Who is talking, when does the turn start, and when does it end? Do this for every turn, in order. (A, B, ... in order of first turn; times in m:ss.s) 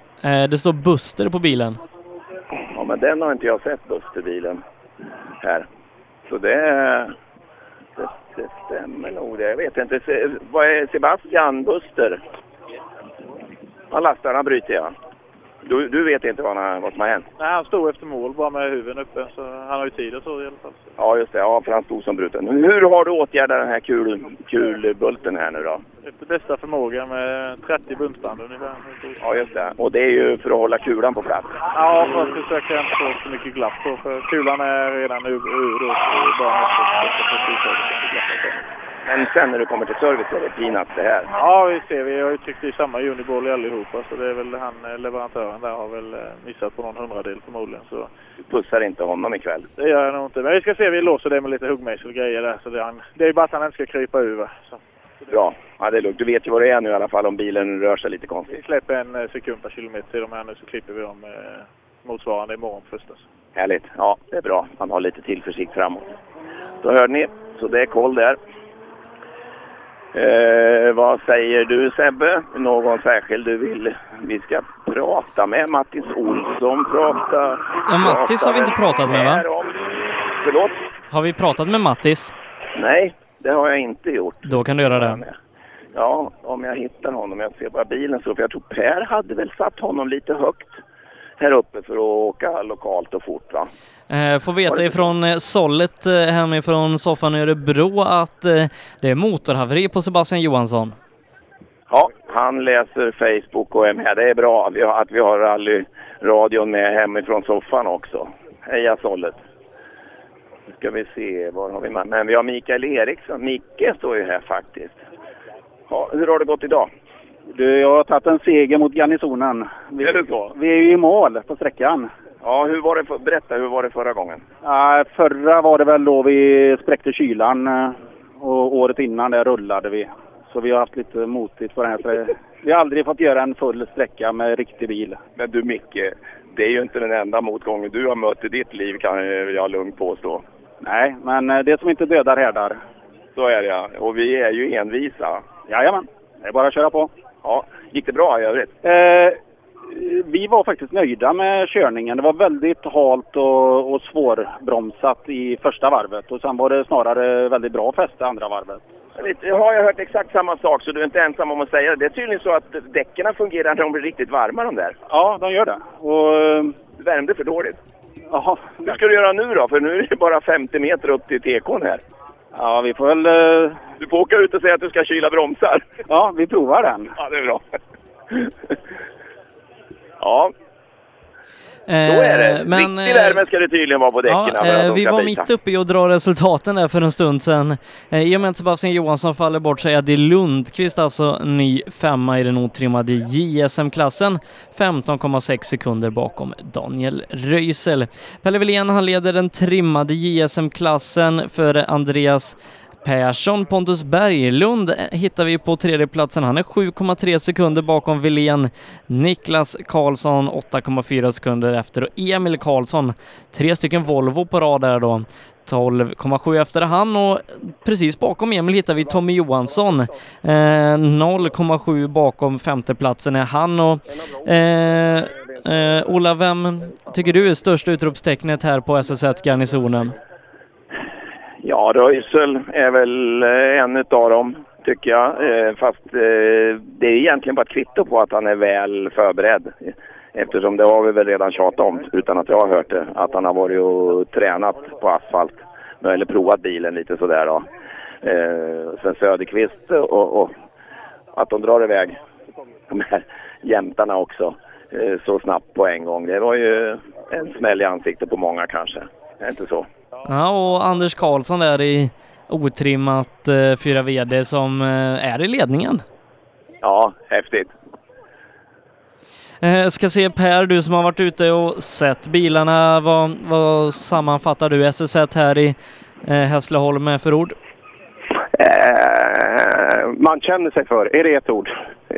0:00.2-0:01.8 A
0:02.7-0:04.6 B
0:06.3-0:07.1 B
0:08.0-0:12.2 B
0:13.9-0:14.9 B
0:15.6-0:17.2 B
0:17.4-0:20.9 C
0:21.0-0:25.8 B
0:26.0-0:29.2 C
0:29.2-0:31.6 B
0:31.7-0:38.6 C
0:39.0-0:41.3 B
0:41.3-0:48.1 C
0:48.5-0:49.7 B
0:49.8-0:54.8 C
0:55.3-0:58.6 B
0:58.5-1:03.2 C
1:03.6-1:06.1 B
1:06.8-1:08.4 B
1:10.1-1:19.8 B
1:17.9-1:19.4 A
1:20.4-1:20.8 B
1:21.1-1:22.3 A
1:22.8-1:25.4 B
1:24.4-1:25.2 A
1:25.9-1:30.8 B
1:31.4-1:33.7 B
1:34.1-1:40.9 A
1:34.7-1:35.1 B
1:41.9-1:49.4 B
1:50.7-1:55.0 B
1:55.9-1:56.9 B
1:57.6-2:02.1 D
2:00.0-2:00.5 B
2:02.4-2:04.4 B
2:04.7-2:07.9 D
2:08.4-2:15.2 D
2:15.4-2:20.4 B
2:20.8-2:22.8 D
2:23.4-2:25.4 B
2:25.7-2:27.1 D
2:27.4-2:28.7 B
2:28.8-2:29.3 D
2:30.1-2:38.8 D
2:39.2-2:45.0 B
2:45.1-2:46.7 D
2:47.0-2:47.8 B
2:48.3-2:48.7 D
2:48.8-2:52.0 B
2:52.6-2:53.7 D
2:54.0-2:55.8 B
2:56.1-2:57.1 D
2:57.2-2:57.6 B
3:00.2-3:00.5 B
3:01.9-3:03.4 A
3:02.0-3:05.5 B
3:04.2-3:50.2 A
3:51.6-4:07.6 B
4:08.2-4:10.5 B
4:11.3-4:12.2 B
4:12.9-4:19.9 B
4:20.2-4:26.0 A
4:26.8-4:27.7 B
4:29.6-4:37.6 A
4:38.5-4:41.7 E